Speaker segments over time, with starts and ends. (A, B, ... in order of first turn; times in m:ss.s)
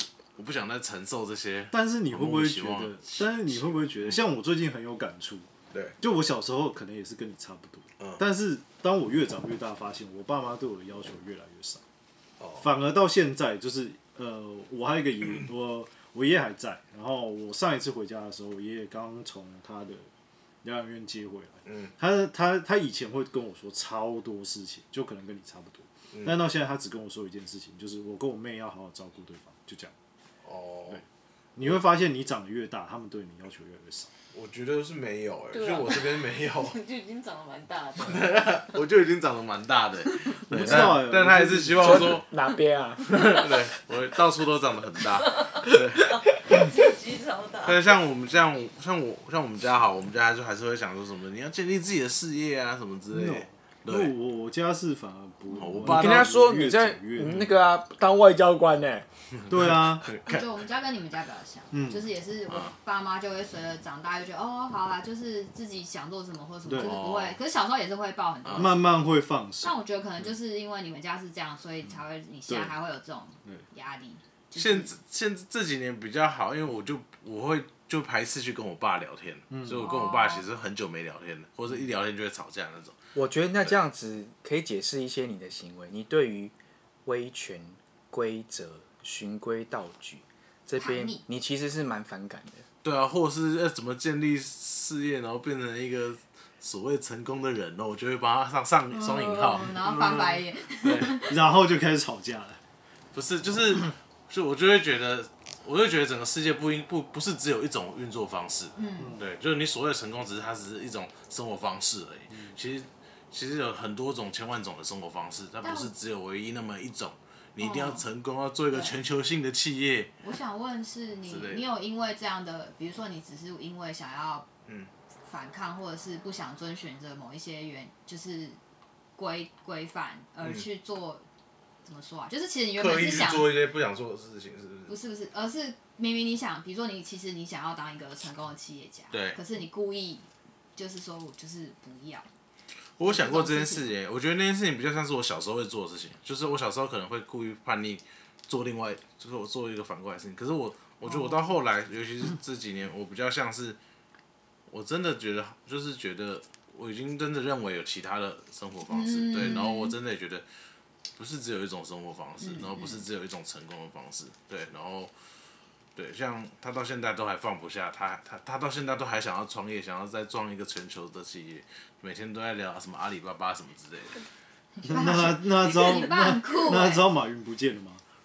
0:00.3-0:04.2 A
0:01.7-0:05.5 B
0:05.7-0:06.0 A
0:06.0-0:11.8 B
0:12.4-0:12.7 A
0:12.6-0:20.1 B
0:20.6-0:29.9 B
0:21.6-0:21.9 A
0:26.1-0:26.4 A
0:30.4-0:31.0 A
0:31.6-0:34.1 B
0:34.3-0:36.8 A
0:35.5-0:38.6 C
0:38.0-0:42.3 A
0:40.5-0:42.2 B
0:41.8-0:43.3 D
0:43.0-0:46.2 A
0:45.3-0:47.9 C
0:47.6-0:54.1 A
0:53.1-0:57.5 B
0:55.6-0:56.3 A
0:55.9-0:59.1 D
0:59.3-1:00.5 A
0:59.5-1:00.1 B
1:00.2-1:09.0 E
1:01.7-1:02.1 B
1:02.5-1:02.7 A
1:06.6-1:06.9 B
1:06.7-1:07.4 A
1:08.4-1:08.8 A
1:08.6-1:09.8 B
1:09.6-1:14.9 E
1:12.5-1:12.8 B
1:14.5-1:22.9 A
1:19.5-1:19.9 B
1:19.8-1:20.4 E
1:23.1-1:26.5 D
1:27.0-1:32.7 D
1:30.8-1:31.2 E
1:32.8-1:40.2 A
1:38.9-1:41.3 E
1:39.8-1:40.4 B
1:40.7-1:41.2 A
1:41.2-1:42.6 B
1:43.1-2:00.1 A
1:48.7-1:49.2 E
1:49.0-1:49.2 B
1:55.6-1:55.9 E
1:57.6-1:58.1 E
2:00.2-2:04.5 E
2:01.2-2:01.6 A
2:04.6-2:04.9 A
2:05.3-2:08.6 E
2:09.2-2:11.2 E
2:10.4-2:10.7 A
2:11.8-2:13.6 E
2:12.7-2:15.0 A
2:14.9-2:22.3 E
2:19.1-2:19.4 A
2:23.0-2:33.8 A
2:23.0-2:23.9 E
2:31.0-2:31.5 E
2:34.7-2:40.4 A
2:38.9-2:39.9 E
2:41.2-2:45.1 A
2:42.4-2:43.0 E
2:45.9-2:54.2 A
2:54.8-2:57.0 E
2:54.8-2:58.0 B